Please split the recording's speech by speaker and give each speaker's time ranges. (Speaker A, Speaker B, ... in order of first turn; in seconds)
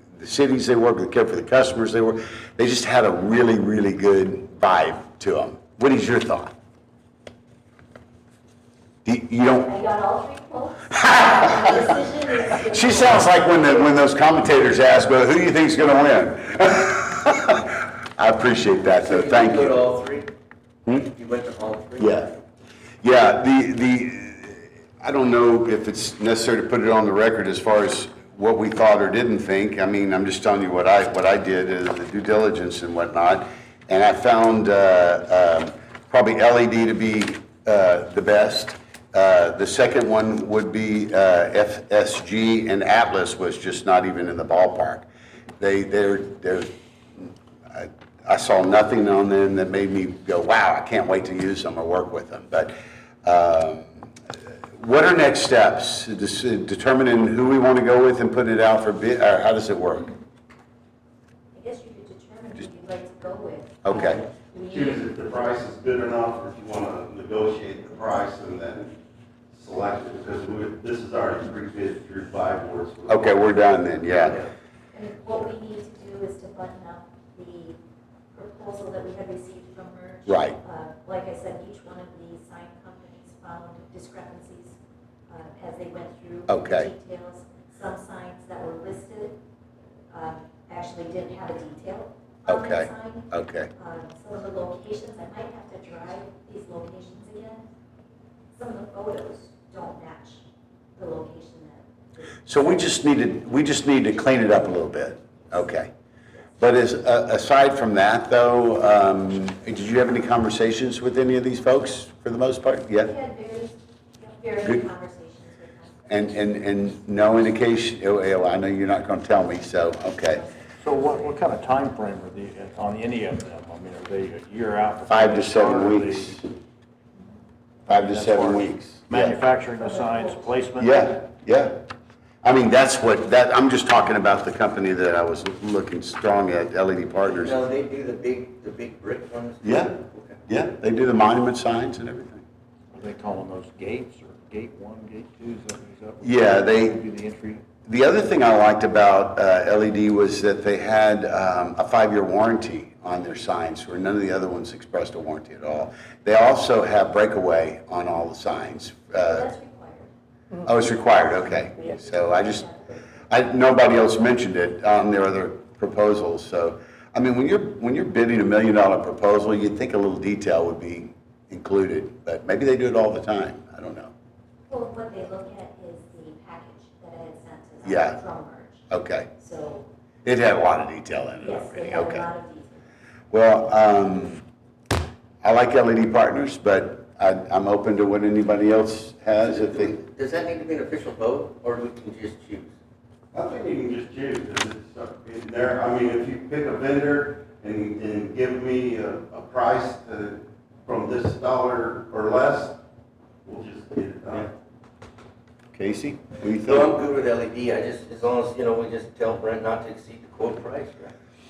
Speaker A: 0.2-6.5, 9.0-9.7, 10.9-12.0, 12.6-19.8, 20.9-21.1, 22.0-22.3, 23.0-45.0, 45.6-54.0, 54.8-60.1, 63.8-64.2, 73.1-74.4, 80.3-80.6, 86.5-86.9, 92.5-93.7, 102.5-105.9, 106.6-113.1, 116.1-120.5, 125.1-126.5, 127.9-129.4, 130.8-131.8, 132.4-137.6, 139.6-140.0, 140.5-142.4, 146.2-147.0, 147.8-159.5, 160.6-162.7, 163.3-174.1, 177.8-178.2, 178.9-179.3, 180.2-182.3, 183.3-184.4, 185.4-190.0, 205.7-206.9
Speaker B: 9.6-13.9, 61.5-65.0, 74.9-77.8, 78.3-84.8, 85.3-89.4, 90.1-97.7, 98.5-100.4, 101.0-102.7, 113.0-116.6, 120.0-121.6, 129.8-130.5, 159.2-160.1, 161.8-163.3, 174.7-179.9, 181.4-182.9
Speaker C: 18.9-20.3, 21.0-22.2, 137.2-140.4, 189.4-192.7, 206.6-211.1
Speaker D: 64.7-68.9, 69.5-73.4, 193.3-202.8, 203.4-204.5
Speaker E: 120.8-126.4, 127.9-131.1, 142.9-147.6